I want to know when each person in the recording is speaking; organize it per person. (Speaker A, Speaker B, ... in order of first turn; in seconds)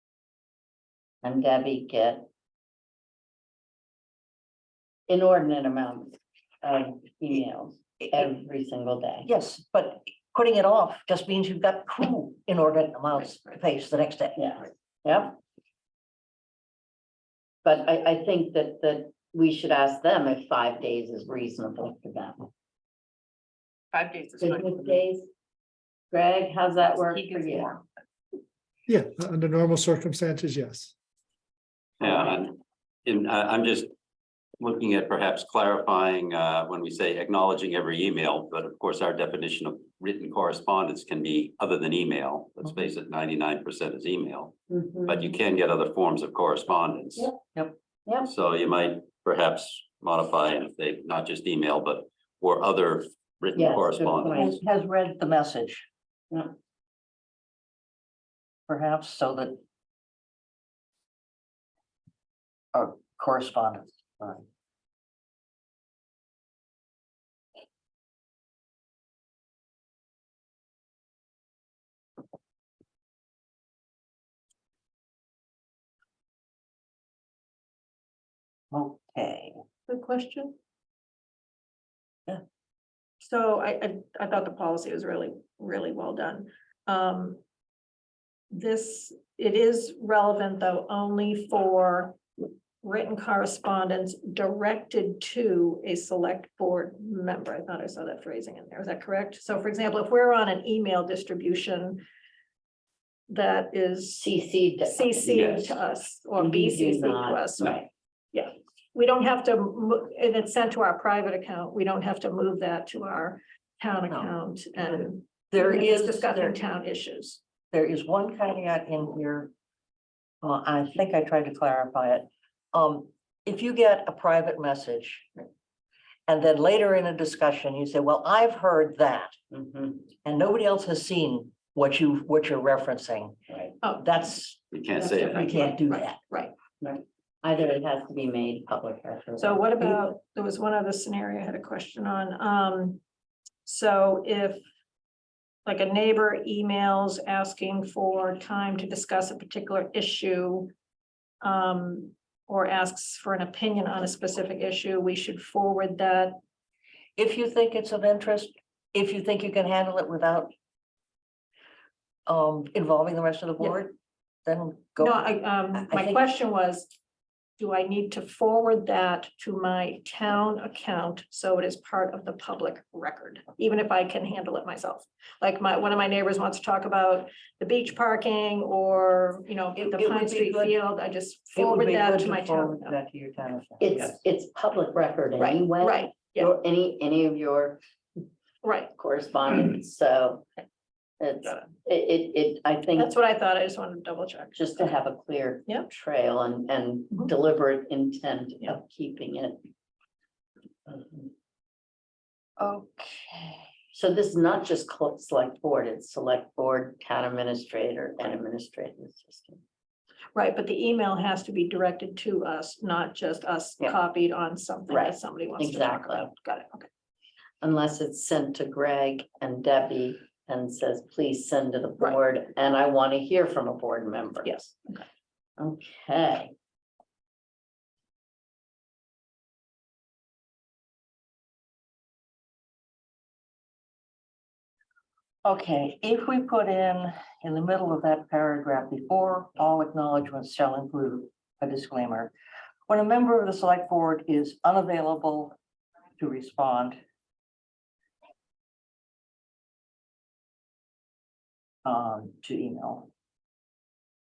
Speaker A: 1.2-2.3, 5.1-9.3, 14.4-15.4, 17.6-22.4, 24.4-25.3, 26.1-27.8, 44.7-45.4, 48.0-48.3, 53.5-54.5, 104.1-105.8, 106.4-107.9, 129.5-130.1, 136.8-139.9, 183.8-187.8, 188.9-190.4, 191.2-193.1, 194.6-199.6, 200.9-201.2, 203.9-209.6, 214.9-216.3, 217.6-224.7, 225.6-226.5
Speaker B: 9.2-14.5, 54.3-55.9, 58.7-59.6, 62.7-64.4, 78.7-79.6, 114.1-116.6, 117.7-119.5, 120.4-125.3, 126.3-129.3, 130.2-133.4, 134.0-134.6, 135.3-136.2, 157.2-160.5, 162.3-163.9, 164.4-166.2, 179.7-180.8, 181.5-183.9, 202.6-203.6, 235.4-242.3, 242.9-245.6, 246.2-247.0, 251.8-253.1
Speaker C: 23.9-24.4, 79.9-80.5, 83.2-87.4, 88.5-92.2, 92.8-102.0, 103.3-104.3, 104.8-117.4, 133.8-134.1, 135.0-136.5, 139.4-143.0, 143.6-144.6, 145.7-150.7, 151.4-156.4, 165.0-166.9, 167.6-182.9, 185.4-186.5, 188.6-188.9, 192.9-194.9, 210.3-216.9, 224.4-224.7
Speaker D: 28.9-30.9
Speaker E: 32.0-33.9, 34.6-44.5, 45.0-47.4, 48.2-54.5, 105.3-105.7, 134.7-135.5